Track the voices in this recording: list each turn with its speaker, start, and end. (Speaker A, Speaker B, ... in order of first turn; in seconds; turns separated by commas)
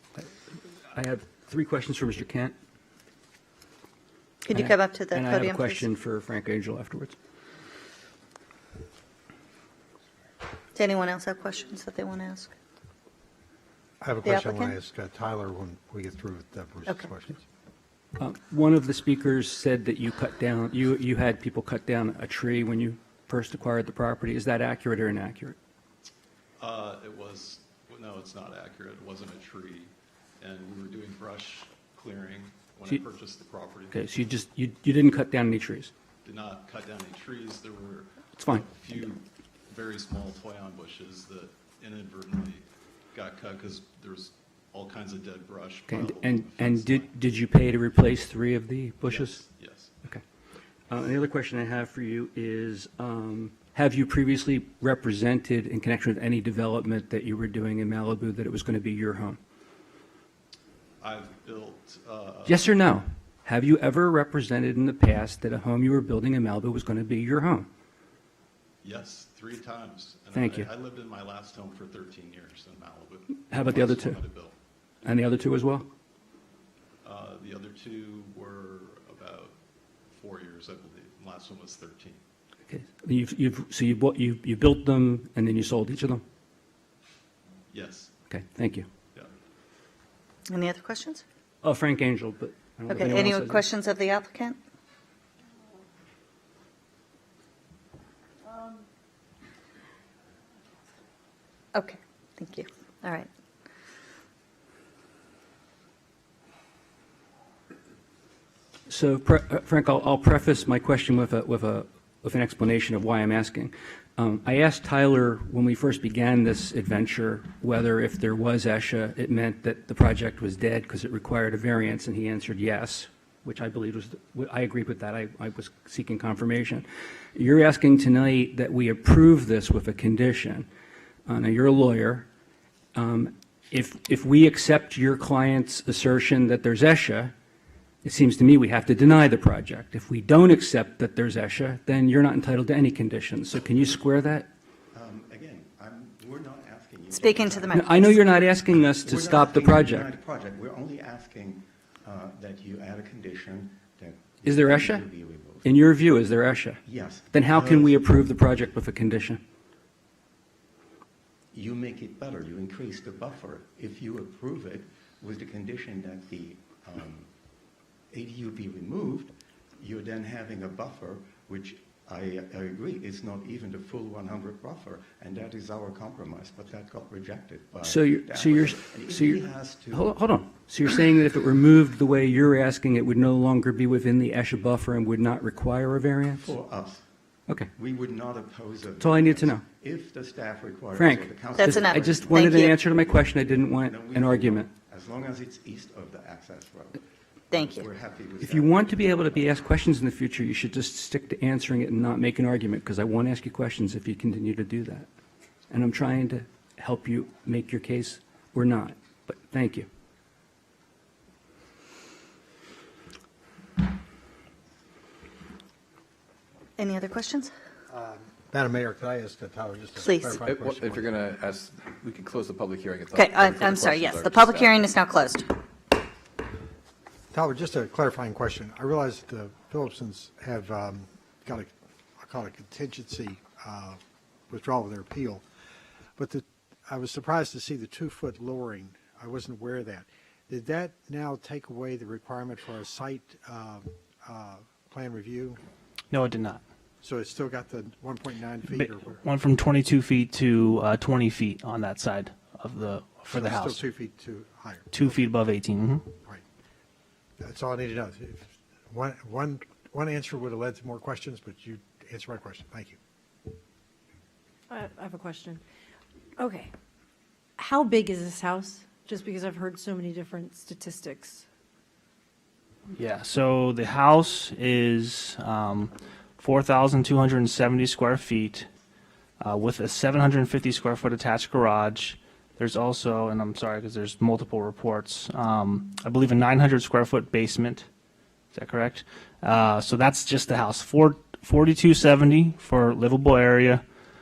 Speaker A: 0.9-2.5, Speaker B: 4.5-5.9, Speaker A: 4.5-7.2, Speaker B: 10.8-12.5, Speaker C: 14.0-17.4, Speaker B: 14.2-14.7, Speaker A: 18.2-25.6, Speaker D: 26.6-34.0, Speaker A: 33.9-35.9, Speaker D: 36.2-47.1, Speaker A: 38.4-38.6, Speaker A: 45.9-49.4, Speaker D: 49.0-49.9, Speaker A: 50.9-59.4, Speaker D: 61.0-62.7, Speaker A: 62.5-67.7, Speaker D: 68.8-74.6, Speaker A: 70.3-70.7, Speaker A: 73.5-74.2, Speaker A: 75.0-75.9, Speaker D: 77.0-79.6, Speaker D: 80.1-82.2, Speaker A: 82.7-86.2, Speaker D: 87.7-88.1, Speaker A: 88.3-88.9, Speaker B: 90.5-91.2, Speaker A: 91.6-93.6, Speaker B: 92.9-94.6, Speaker B: 101.7-103.3, Speaker A: 108.9-130.7, Speaker A: 131.3-132.3, Speaker A: 132.9-137.3, Speaker A: 138.0-144.5, Speaker E: 144.9-147.9, Speaker B: 147.1-148.2, Speaker A: 147.7-150.1, Speaker E: 148.9-155.8, Speaker A: 154.4-155.1, Speaker A: 155.6-159.4, Speaker E: 156.8-158.1, Speaker E: 161.5-167.3, Speaker E: 168.1-180.1, Speaker A: 177.8-186.5, Speaker E: 186.4-187.1, Speaker E: 187.8-197.0, Speaker A: 189.0-189.6, Speaker A: 191.0-194.7, Speaker B: 191.6-192.8, Speaker B: 197.5-197.9, Speaker E: 197.5-199.5, Speaker A: 198.4-205.1, Speaker A: 205.7-209.9, Speaker B: 216.8-217.5, Speaker C: 217.9-221.1, Speaker B: 220.0-220.4, Speaker F: 220.4-224.9, Speaker B: 223.2-225.5, Speaker C: 227.3-235.4, Speaker C: 236.2-245.6, Speaker G: 246.1-246.6, Speaker C: 247.0-249.2, Speaker G: 248.7-253.9, Speaker C: 253.3-255.3, Speaker G: 254.9-256.1, Speaker C: 257.4-263.0, Speaker H: 264.7-265.6, Speaker H: 266.4-266.7, Speaker H: 267.6-271.4, Speaker G: 272.9-278.7, Speaker G: 279.4-287.9, Speaker G: 288.5-293.8